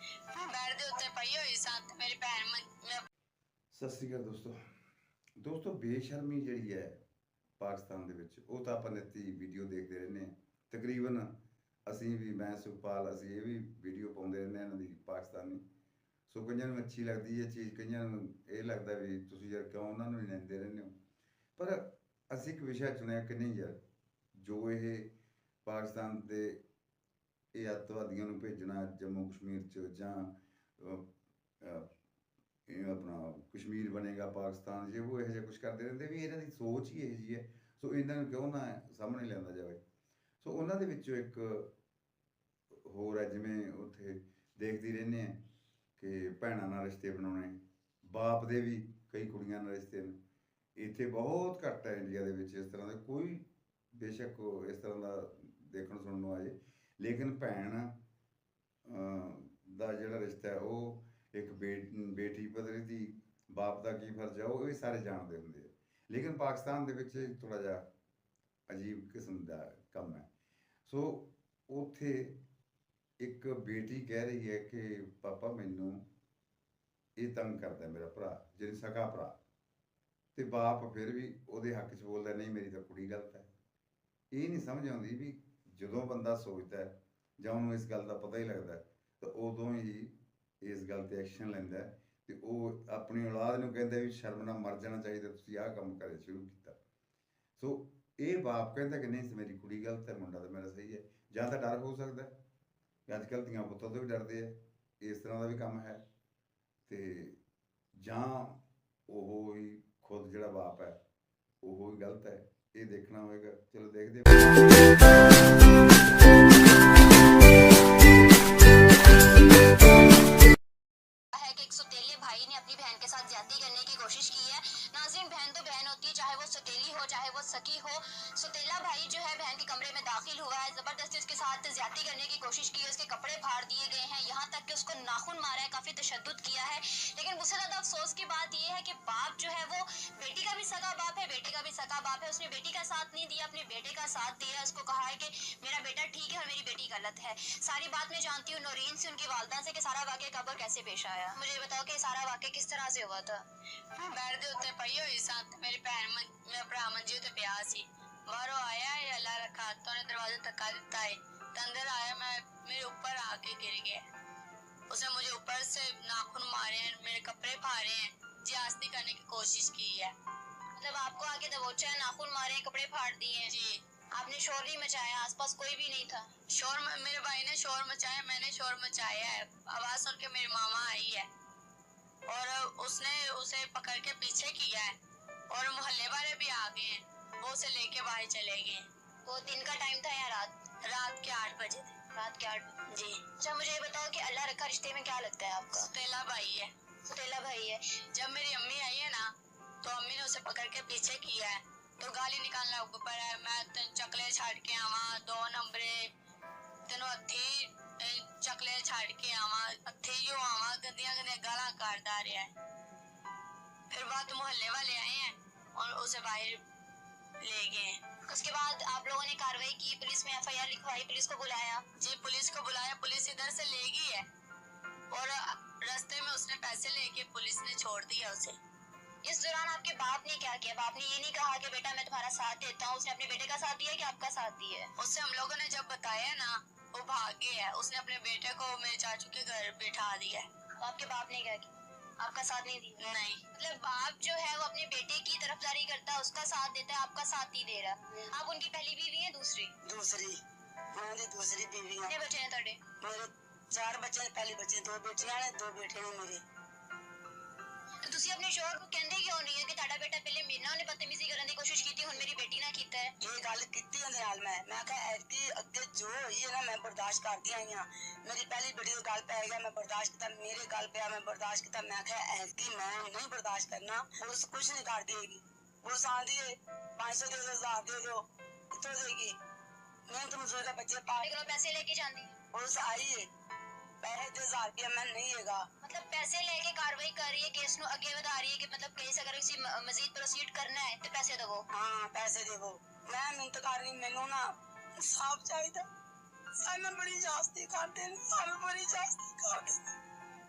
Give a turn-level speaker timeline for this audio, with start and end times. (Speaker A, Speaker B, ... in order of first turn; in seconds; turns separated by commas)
Speaker A: 0.3-3.1, Speaker B: 3.7-4.6, Speaker B: 5.4-7.0, Speaker B: 7.6-11.3, Speaker B: 11.9-15.6, Speaker B: 16.3-21.0, Speaker B: 21.6-23.8, Speaker B: 24.4-25.1, Speaker B: 25.6-26.6, Speaker B: 27.5-31.1, Speaker B: 31.6-31.9, Speaker B: 32.7-39.8, Speaker B: 40.4-41.7, Speaker B: 42.7-45.4, Speaker B: 46.0-50.2, Speaker B: 50.8-58.0, Speaker B: 58.9-67.9, Speaker B: 68.7-70.3, Speaker B: 70.8-72.4, Speaker B: 73.2-76.0, Speaker B: 77.2-79.4, Speaker B: 80.3-83.5, Speaker B: 84.3-96.8, Speaker B: 97.6-102.3, Speaker B: 103.1-106.0, Speaker B: 106.9-107.4, Speaker B: 108.0-111.0, Speaker B: 111.6-114.5, Speaker C: 121.3-153.4, Speaker A: 153.9-164.1, Speaker A: 164.9-170.2, Speaker C: 170.8-173.5, Speaker A: 173.5-173.8, Speaker C: 174.1-176.3, Speaker A: 176.5-181.3, Speaker A: 182.3-185.0, Speaker A: 185.5-188.9, Speaker C: 189.3-190.6, Speaker A: 190.8-192.0, Speaker C: 192.2-192.8, Speaker A: 192.9-193.2, Speaker C: 193.4-195.9, Speaker A: 195.8-196.7, Speaker C: 197.1-197.8, Speaker A: 198.1-199.3, Speaker A: 199.8-206.1, Speaker A: 206.9-212.5, Speaker A: 213.9-216.6, Speaker A: 217.4-218.0, Speaker C: 218.3-221.8, Speaker A: 222.0-224.3, Speaker A: 225.1-228.6, Speaker C: 229.2-234.9, Speaker A: 235.0-240.5, Speaker C: 240.8-243.0, Speaker A: 243.0-243.4, Speaker C: 243.5-249.7, Speaker D: 249.8-250.4, Speaker D: 250.9-252.1, Speaker C: 252.1-252.8, Speaker D: 253.0-256.4, Speaker C: 258.0-263.1, Speaker D: 263.2-279.4, Speaker D: 280.1-281.3, Speaker C: 281.1-282.3, Speaker D: 282.5-283.3, Speaker D: 284.0-285.6, Speaker C: 285.8-291.7, Speaker D: 291.7-295.9, Speaker D: 296.6-299.9